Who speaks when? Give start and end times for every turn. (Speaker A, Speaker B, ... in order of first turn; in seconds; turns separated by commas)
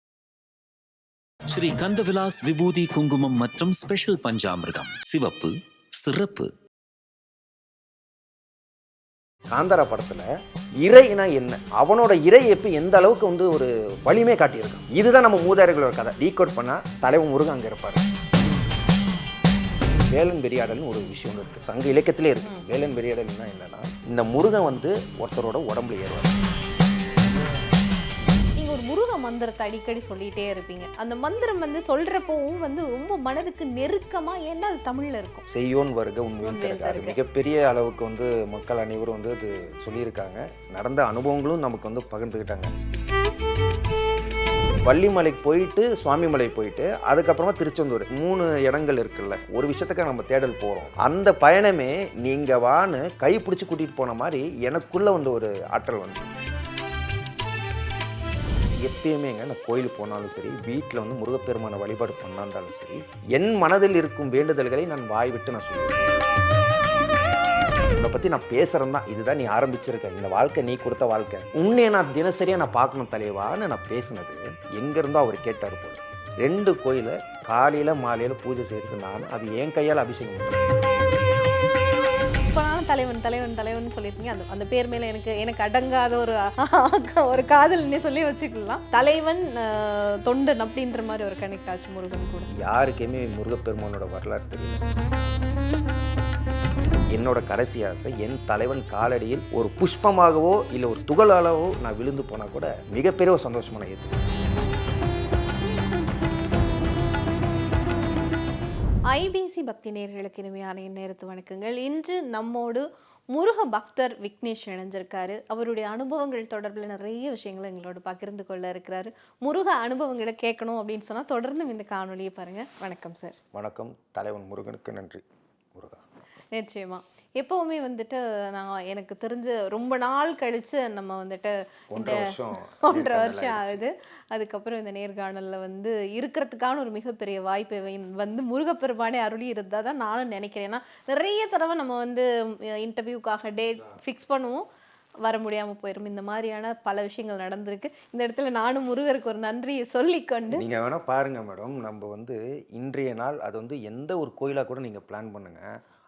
Speaker A: 1.5-6.5, Speaker B: 9.5-10.3, Speaker B: 10.8-18.0, Speaker B: 20.1-26.3, Speaker C: 28.6-35.4, Speaker B: 35.5-42.7, Speaker C: 36.4-37.2, Speaker B: 44.8-56.2, Speaker B: 58.8-66.0, Speaker B: 67.9-80.9, Speaker C: 82.5-92.5, Speaker B: 92.5-94.8, Speaker B: 97.1-104.2, Speaker C: 109.1-123.4, Speaker B: 123.5-126.0, Speaker C: 126.5-144.6, Speaker B: 131.9-133.8, Speaker C: 145.2-150.6, Speaker B: 150.5-155.6